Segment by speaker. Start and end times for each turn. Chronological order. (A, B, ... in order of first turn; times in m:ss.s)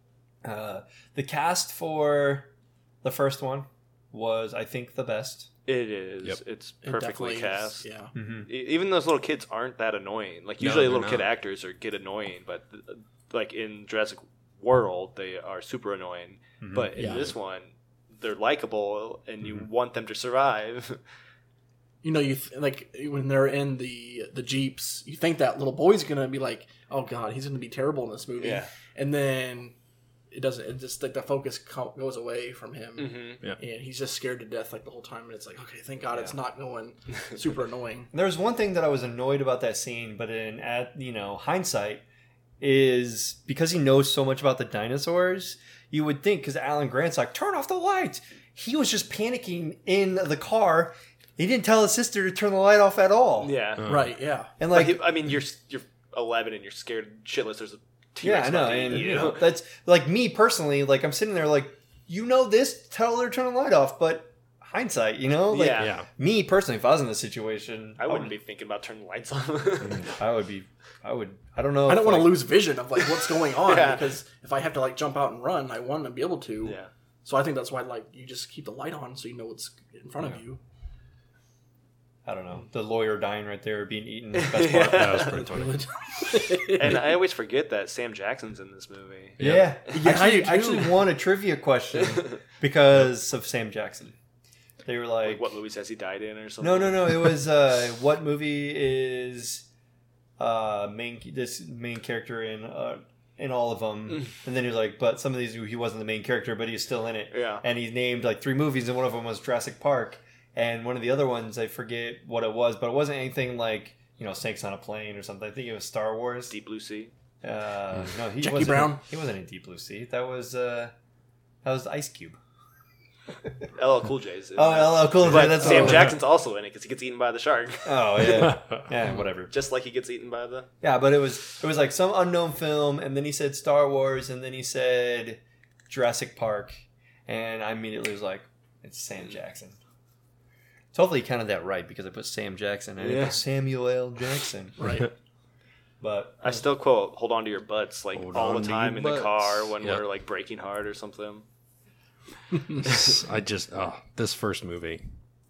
0:00.4-0:02.5 A
0:03.0-0:05.5 A
0:05.7-0:07.8 B
0:06.8-0:08.1 C
0:08.1-0:08.5 A
0:08.5-0:21.0 B
0:10.6-0:11.3 D
0:16.6-0:16.9 A
0:17.0-0:17.3 C
0:17.0-0:17.3 D
0:22.0-0:29.8 C
0:28.4-0:28.7 B
0:30.3-0:38.1 C
0:33.0-0:33.4 B
0:38.1-0:42.0 A
0:42.6-0:53.5 A
0:53.4-0:53.9 B
0:53.8-0:54.1 D
0:53.9-0:54.5 C
0:54.6-0:55.1 A
0:54.7-0:59.4 B
0:58.2-1:08.3 A
1:05.5-1:06.0 B
1:05.8-1:06.1 D
1:08.0-1:10.1 B
1:09.8-1:10.1 D
1:10.1-1:12.4 A
1:11.9-1:20.6 C
1:13.5-1:14.1 B
1:16.6-1:16.9 B
1:22.2-1:25.4 A
1:24.4-1:25.5 B
1:24.9-1:25.9 D
1:25.4-1:27.0 C
1:26.7-1:29.4 B
1:29.4-1:29.7 D
1:29.4-1:34.2 A
1:29.9-1:31.0 C
1:32.0-1:32.4 B
1:34.8-1:35.4 A
1:35.2-1:37.4 B
1:36.6-1:39.7 A
1:40.4-1:56.5 A
1:47.3-1:47.6 B
1:56.5-1:57.1 B
1:57.4-2:00.9 A
1:58.4-1:59.0 C
2:01.6-2:02.4 A
2:03.8-2:08.5 B
2:04.5-2:06.2 A
2:05.7-2:06.1 D
2:07.8-2:09.5 A
2:09.5-2:10.7 B
2:10.8-2:19.8 A
2:20.9-2:25.1 A
2:23.0-2:23.4 B
2:24.8-2:25.1 C
2:26.0-2:26.4 A
2:26.4-2:31.4 B
2:28.1-2:30.0 D
2:32.8-2:35.1 D